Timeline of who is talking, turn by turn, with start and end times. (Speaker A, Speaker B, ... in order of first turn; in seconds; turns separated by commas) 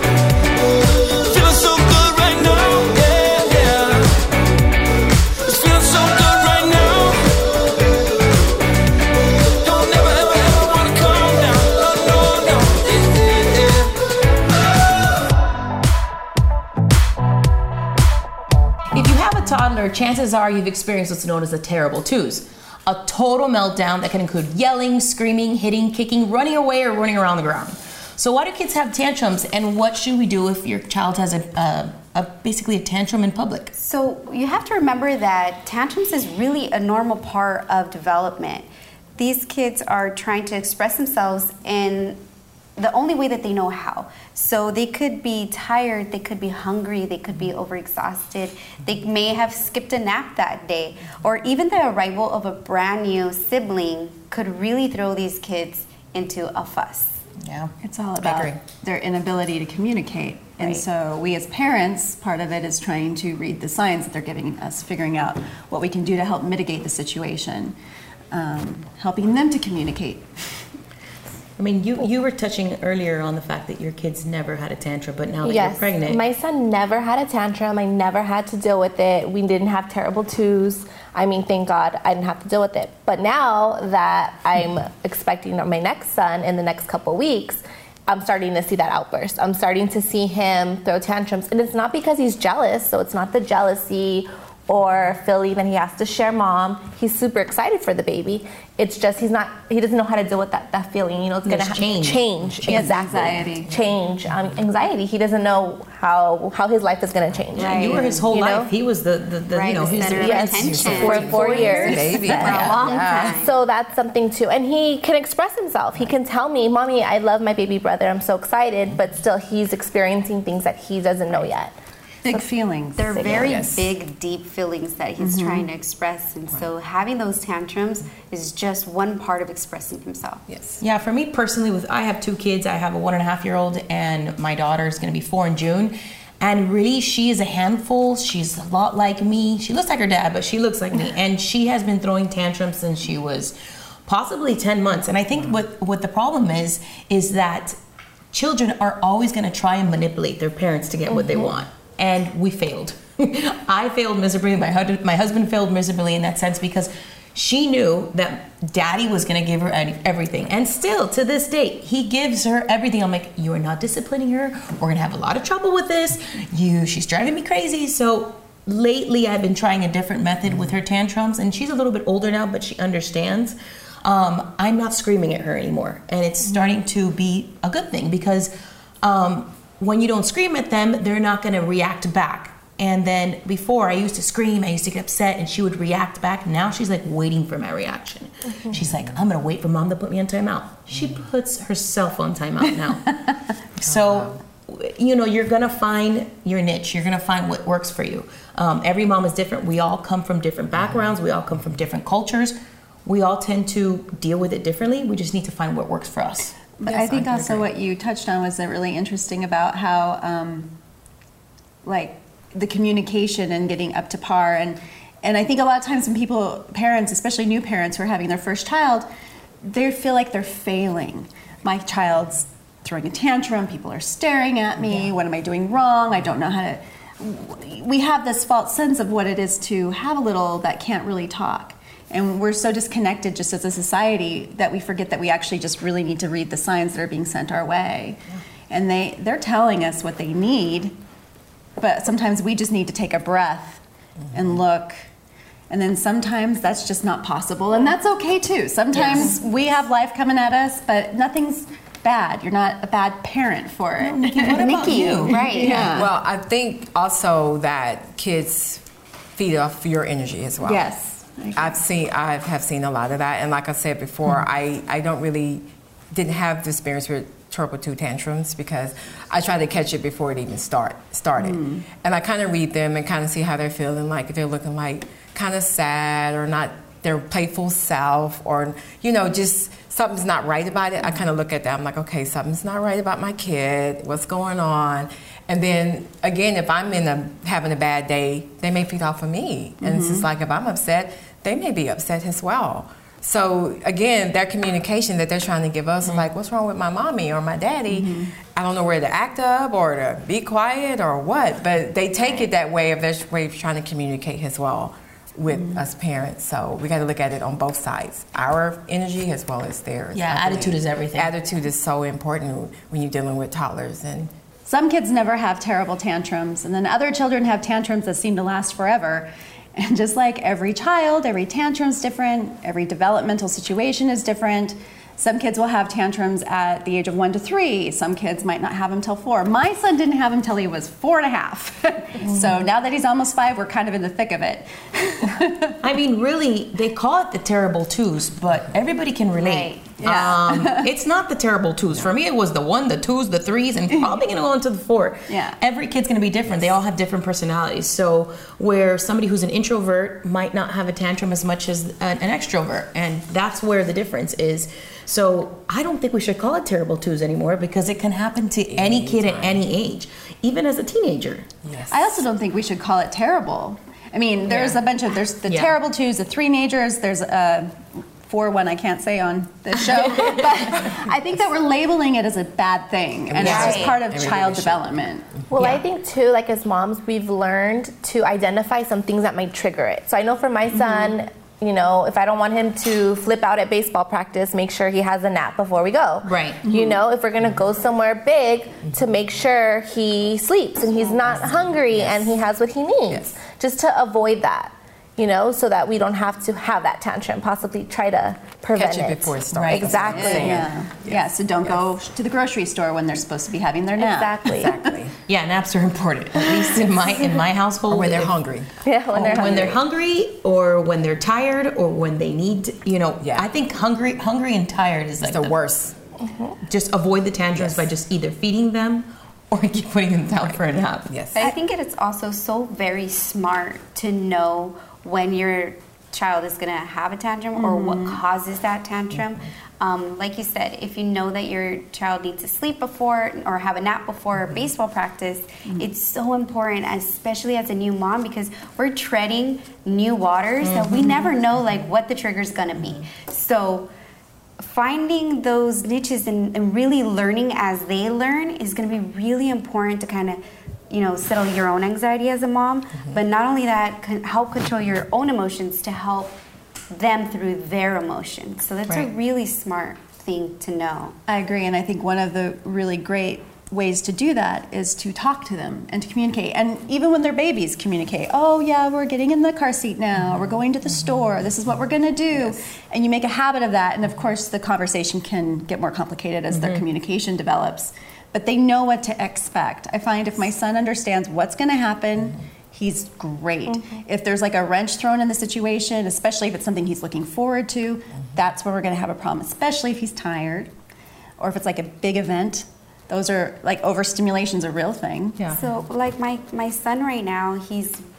Speaker A: 1.2-4.1, Speaker A: 5.4-7.4, Speaker A: 9.6-14.0, Speaker B: 18.9-33.7, Speaker C: 33.8-42.2, Speaker C: 42.8-57.2, Speaker D: 57.8-67.8, Speaker E: 58.2-58.6, Speaker D: 68.3-70.7, Speaker B: 71.6-76.2, Speaker F: 75.4-108.7, Speaker B: 101.4-102.8, Speaker D: 102.6-103.7, Speaker C: 107.6-108.1, Speaker B: 107.6-110.9, Speaker D: 107.8-108.1, Speaker C: 109.5-113.5, Speaker F: 110.0-121.7, Speaker E: 110.6-113.3, Speaker D: 111.0-113.0, Speaker D: 122.2-123.4, Speaker C: 123.0-130.4, Speaker F: 123.1-123.5, Speaker E: 123.2-123.9, Speaker D: 125.2-125.7, Speaker E: 130.5-130.8, Speaker B: 130.8-143.5, Speaker B: 144.1-147.8, Speaker B: 148.3-178.5, Speaker B: 179.0-193.2, Speaker E: 188.7-189.1, Speaker B: 193.7-206.5, Speaker E: 193.8-194.4, Speaker D: 206.8-210.7, Speaker E: 206.8-207.7, Speaker D: 211.8-219.1, Speaker D: 219.6-240.9, Speaker D: 241.8-245.0, Speaker D: 245.7-256.1, Speaker B: 254.0-255.9, Speaker C: 254.5-255.8, Speaker E: 255.7-258.8, Speaker E: 259.4-260.9, Speaker D: 260.6-261.8, Speaker E: 261.5-314.3, Speaker D: 271.4-271.9, Speaker D: 289.8-290.3, Speaker D: 297.9-298.3, Speaker D: 305.5-305.8, Speaker B: 310.1-311.3, Speaker D: 314.6-335.7, Speaker B: 335.8-361.5, Speaker C: 339.4-340.0, Speaker D: 340.0-340.9, Speaker D: 345.3-345.6, Speaker E: 358.7-359.6, Speaker E: 361.6-362.1, Speaker D: 361.9-375.3, Speaker B: 365.5-365.7, Speaker E: 373.3-374.9, Speaker C: 373.4-374.0, Speaker B: 373.4-373.8, Speaker F: 375.5-400.6, Speaker B: 375.6-375.8, Speaker B: 386.2-386.6, Speaker D: 386.6-387.0, Speaker E: 391.3-392.3, Speaker E: 398.7-401.7, Speaker B: 399.5-400.0, Speaker D: 400.1-404.8, Speaker F: 404.0-404.7, Speaker E: 404.6-405.2, Speaker B: 405.3-408.3, Speaker E: 407.9-409.5, Speaker F: 408.8-409.8, Speaker B: 409.2-415.5, Speaker E: 413.2-413.5, Speaker E: 415.2-415.9, Speaker F: 416.2-416.5, Speaker B: 416.6-421.1, Speaker E: 417.5-417.9, Speaker E: 421.1-421.5, Speaker C: 421.3-443.9, Speaker D: 427.5-428.2, Speaker B: 440.6-441.1, Speaker C: 444.6-456.4, Speaker C: 456.9-461.1, Speaker D: 461.3-490.7, Speaker B: 476.5-476.8, Speaker D: 491.4-495.5, Speaker C: 495.5-498.0